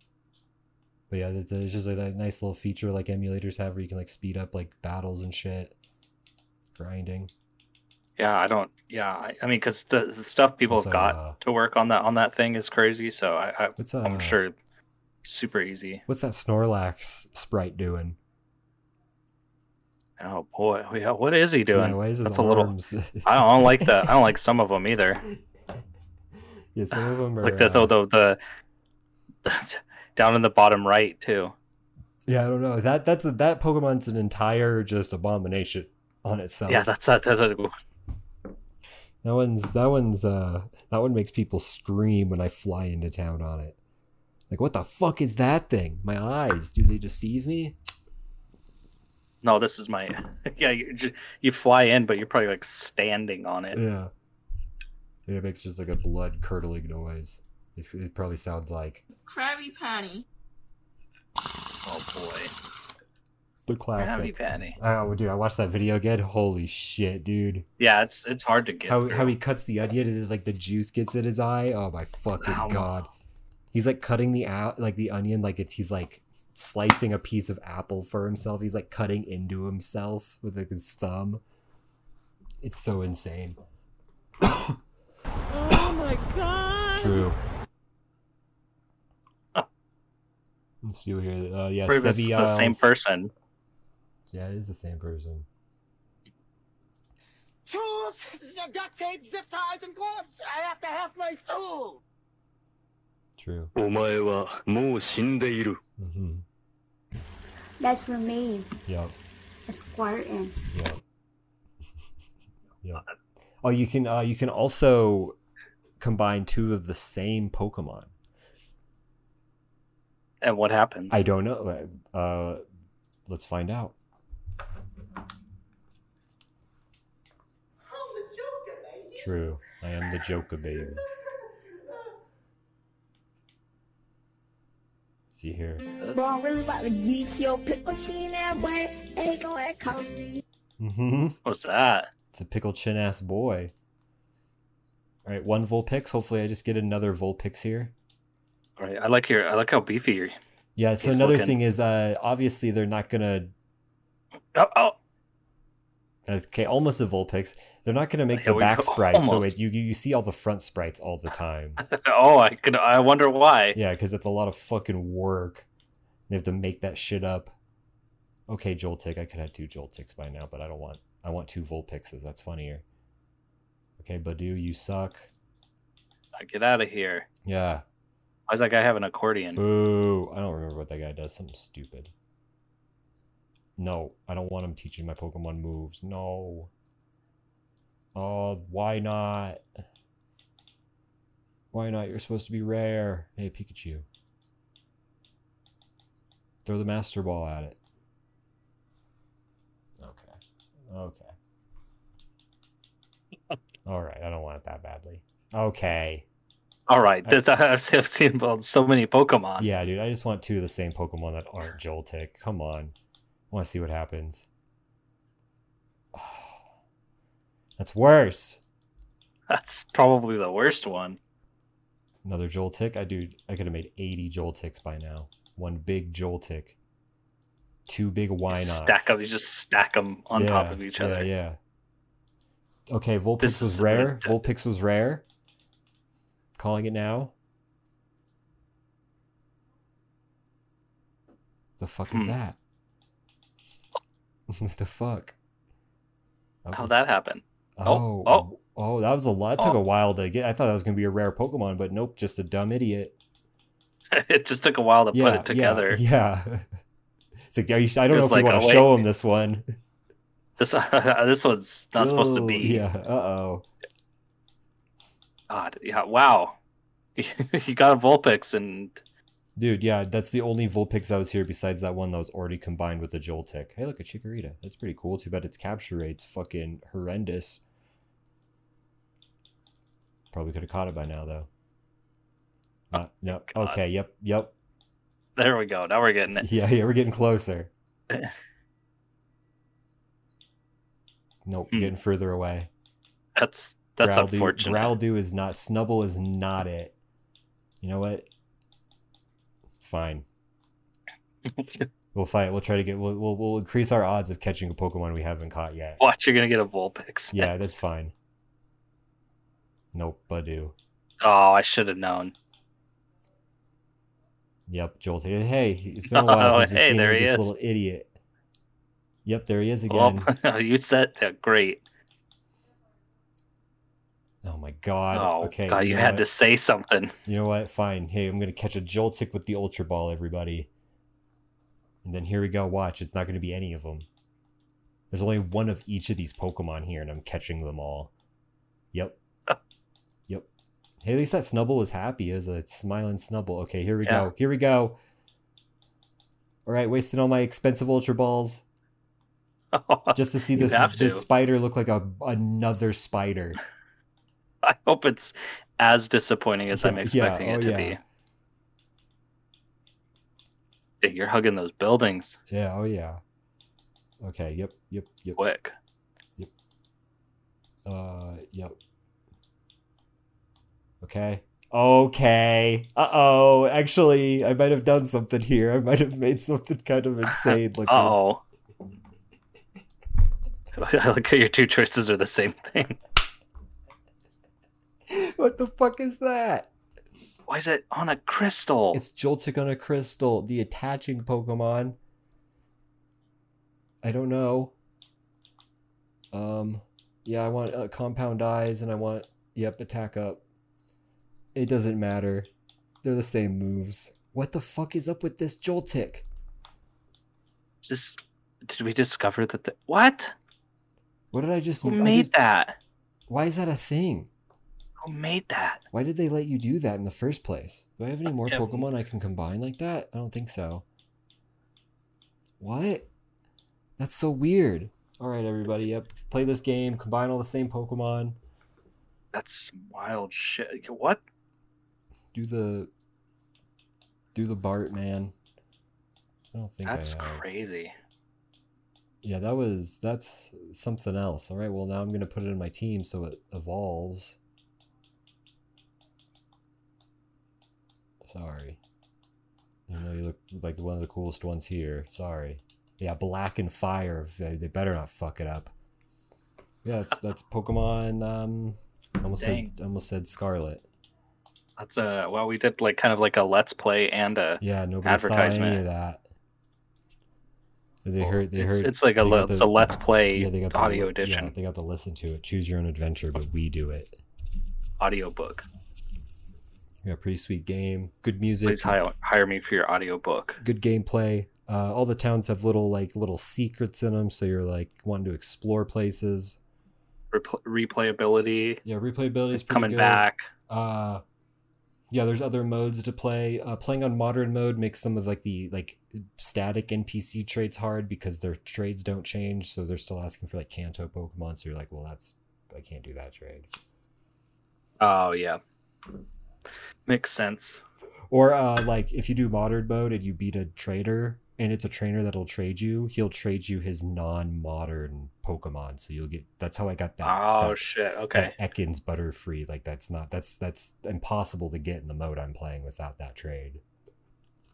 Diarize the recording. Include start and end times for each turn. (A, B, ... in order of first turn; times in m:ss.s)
0:01.1-0:05.7 A
0:06.7-0:07.3 A
0:08.2-0:14.5 B
0:10.7-0:11.4 A
0:13.8-0:14.4 A
0:15.2-0:16.0 B
0:16.1-0:18.2 A
0:20.2-0:22.7 B
0:21.7-0:24.2 A
0:23.2-0:25.2 B
0:26.7-0:27.9 A
0:26.9-0:28.4 B
0:29.4-0:31.5 B
0:32.2-0:37.0 A
0:36.7-0:37.7 B
0:39.2-0:43.8 A
0:44.5-0:47.7 A
0:49.4-0:53.8 B
0:53.7-0:54.1 A
0:55.2-0:59.0 A
0:59.2-1:00.2 C
1:01.8-1:02.5 B
1:03.6-1:07.7 A
1:04.0-1:04.8 B
1:07.8-1:09.3 B
1:08.9-1:13.1 A
1:12.4-1:12.9 B
1:13.7-1:21.4 A
1:22.6-1:23.6 A
1:24.4-1:24.8 A
1:26.9-1:27.4 A
1:30.8-1:32.9 A
1:31.9-1:33.3 B
1:34.3-1:35.4 A
1:37.6-1:42.0 D
1:43.4-1:43.7 A
1:43.7-1:45.8 E
1:46.0-1:46.4 A
1:47.8-1:48.7 C
1:48.9-1:49.1 A
1:49.7-1:50.5 C
1:50.7-1:51.0 A
1:53.6-1:55.4 A
1:56.0-1:58.1 A
2:00.4-2:01.2 B
2:01.1-2:02.6 A
2:03.2-2:03.9 A
2:07.9-2:09.1 D
2:09.2-2:11.0 A
2:15.3-2:15.8 A
2:16.0-2:16.2 B
2:16.1-2:20.4 C
2:20.8-2:21.4 A
2:21.4-2:22.1 B
2:22.3-2:23.7 A
2:25.2-2:27.9 A
2:28.8-2:30.4 B
2:30.8-2:33.5 A
2:31.0-2:31.6 B
2:34.5-2:34.9 B
2:36.2-2:41.8 A
2:38.3-2:39.6 B
2:41.8-2:43.8 B
2:43.7-2:45.7 A
2:46.3-2:47.5 A
2:48.5-2:52.8 A
2:54.0-2:55.3 A
2:56.4-2:57.3 B
2:57.4-2:57.8 A
2:58.5-2:59.6 B
2:59.6-3:02.1 A
3:03.8-3:06.7 A
3:08.1-3:09.6 A
3:11.7-3:14.0 A
3:16.6-3:17.8 A
3:20.0-3:21.3 A
3:23.8-3:26.2 A
3:26.9-3:29.7 B
3:29.6-3:33.0 A
3:33.5-3:34.5 A
3:36.1-3:36.6 A
3:37.8-3:38.6 A
3:39.5-3:41.2 B
3:42.2-3:46.8 A
3:47.9-3:49.1 A
3:48.5-3:51.3 B
3:50.3-3:51.6 A
3:52.9-3:55.2 A
3:53.4-3:54.5 B
3:56.5-3:57.3 A
4:01.8-4:02.6 A
4:04.5-4:05.4 A
4:06.6-4:07.0 A
4:06.7-4:08.4 B
4:07.8-4:13.2 A
4:14.1-4:16.0 B
4:15.1-4:16.7 A
4:17.4-4:19.6 A
4:18.1-4:19.0 B
4:20.6-4:22.8 B
4:22.0-4:23.7 A
4:25.5-4:26.6 B
4:27.2-4:29.0 B
4:29.6-4:37.6 A
4:40.3-4:41.5 A
4:42.9-4:44.5 A
4:43.4-4:43.8 B
4:45.4-4:46.4 B
4:46.3-4:47.7 A
4:48.1-4:48.3 B
4:51.4-4:52.7 A
4:53.4-4:54.9 B
4:54.0-4:57.0 A
4:57.8-4:58.3 A
4:59.8-5:00.2 A
5:01.4-5:01.9 B
5:02.1-5:06.0 A
5:06.0-5:07.8 B
5:07.3-5:08.1 A
5:09.9-5:10.7 A
5:11.2-5:12.3 B
5:14.7-5:18.1 A
5:16.1-5:17.5 B
5:19.2-5:20.3 A
5:19.9-5:21.8 B
5:24.4-5:26.2 A
5:25.1-5:27.1 B
5:27.2-5:30.7 A
5:32.0-5:34.1 A
5:35.1-5:38.1 A
5:38.9-5:39.2 A
5:41.0-5:45.0 A
5:46.6-5:48.6 A
5:49.7-5:51.2 B
5:50.1-5:53.6 A
5:54.6-5:58.0 B
5:56.7-5:58.0 A
6:01.0-6:02.4 B
6:02.5-6:03.2 A
6:04.2-6:05.4 A
6:05.4-6:05.7 B
6:07.8-6:08.8 A
6:11.0-6:18.2 A
6:17.3-6:18.4 B
6:20.7-6:23.0 B
6:25.1-6:26.7 A
6:27.5-6:29.0 B
6:28.9-6:32.0 A
6:34.0-6:34.7 A
6:36.3-6:40.4 A
6:41.5-6:42.5 A
6:43.0-6:46.2 A
6:47.8-6:50.3 B
6:51.3-6:52.3 A
6:51.8-6:52.8 B
6:53.3-6:54.3 A
6:55.0-6:55.8 B
6:55.9-7:00.8 A
6:58.4-6:58.8 B
7:02.6-7:03.1 A
7:04.0-7:08.4 A
7:09.3-7:11.2 B
7:12.3-7:12.9 A
7:14.3-7:15.3 A
7:16.5-7:17.4 A
7:16.8-7:17.9 B
7:19.2-7:24.4 A
7:28.2-7:28.8 A
7:29.9-7:35.7 A
7:36.8-7:40.8 A
7:39.4-7:39.7 B
7:41.8-7:45.8 B
7:44.6-7:46.2 A
7:48.0-7:54.2 A
7:48.2-7:51.5 B
7:55.0-7:55.6 B
7:57.0-7:59.0 A
7:58.6-8:00.6 B
8:00.6-8:06.6 A
8:07.3-8:08.8 B
8:08.8-8:11.2 A
8:09.5-8:10.5 B
8:12.1-8:23.7 A
8:25.0-8:25.6 B
8:27.1-8:27.8 B
8:28.3-8:43.8 A
8:37.2-8:38.5 B